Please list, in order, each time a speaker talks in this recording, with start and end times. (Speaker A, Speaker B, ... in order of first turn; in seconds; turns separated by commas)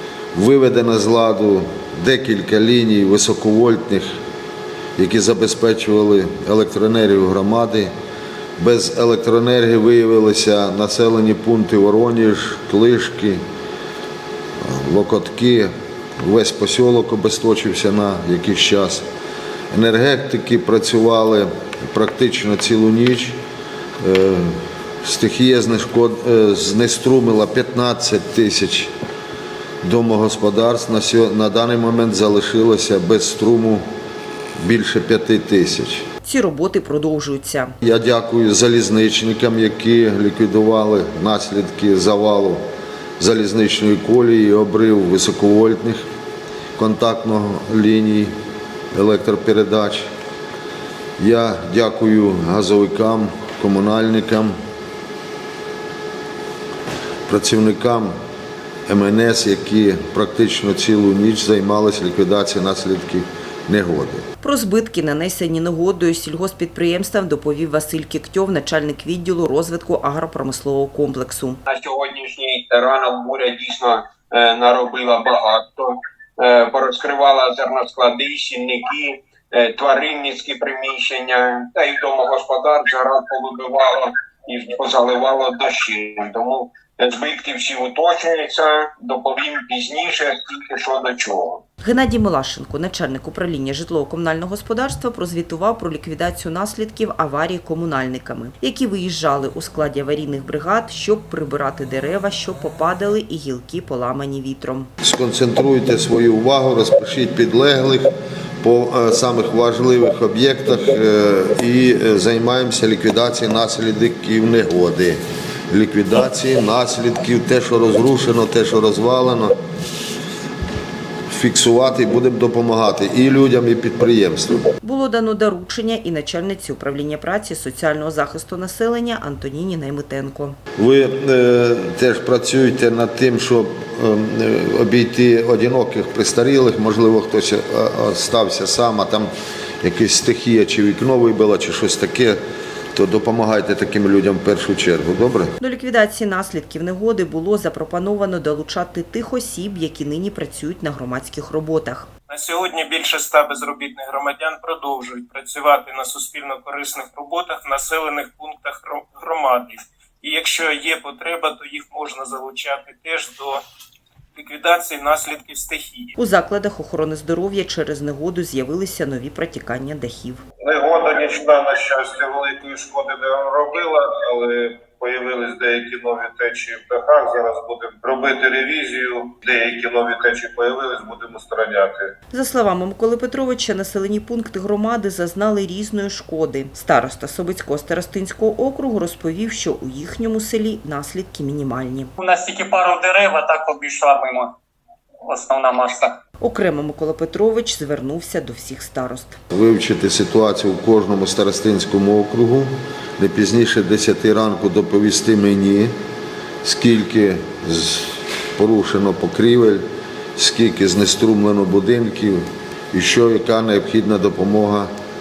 Speaker A: 0.3-4.1, Speaker A: 5.0-7.9, Speaker A: 8.6-13.4, Speaker A: 14.6-19.1, Speaker A: 19.7-23.4, Speaker A: 24.0-28.9, Speaker A: 29.8-33.8, Speaker A: 34.6-36.0, Speaker B: 36.2-37.7, Speaker A: 37.8-42.6, Speaker A: 43.2-46.0, Speaker A: 46.8-48.3, Speaker A: 48.9-50.1, Speaker A: 51.2-54.5, Speaker A: 57.3-58.1, Speaker A: 58.9-64.2, Speaker B: 64.4-71.6, Speaker C: 71.7-91.6, Speaker B: 91.8-104.9, Speaker A: 105.0-108.1, Speaker A: 108.6-119.6, Speaker A: 121.3-124.7, Speaker B: 124.8-130.6, Speaker A: 130.8-139.3, Speaker A: 139.8-142.4, Speaker A: 142.9-145.5, Speaker B: 145.6-152.1, Speaker D: 152.3-163.6, Speaker D: 164.3-166.1, Speaker B: 166.2-170.4, Speaker E: 170.6-182.1, Speaker B: 182.3-192.1, Speaker F: 192.2-194.6, Speaker F: 195.2-196.2, Speaker B: 196.4-199.4, Speaker A: 199.5-205.9, Speaker A: 206.6-209.8, Speaker A: 210.3-214.9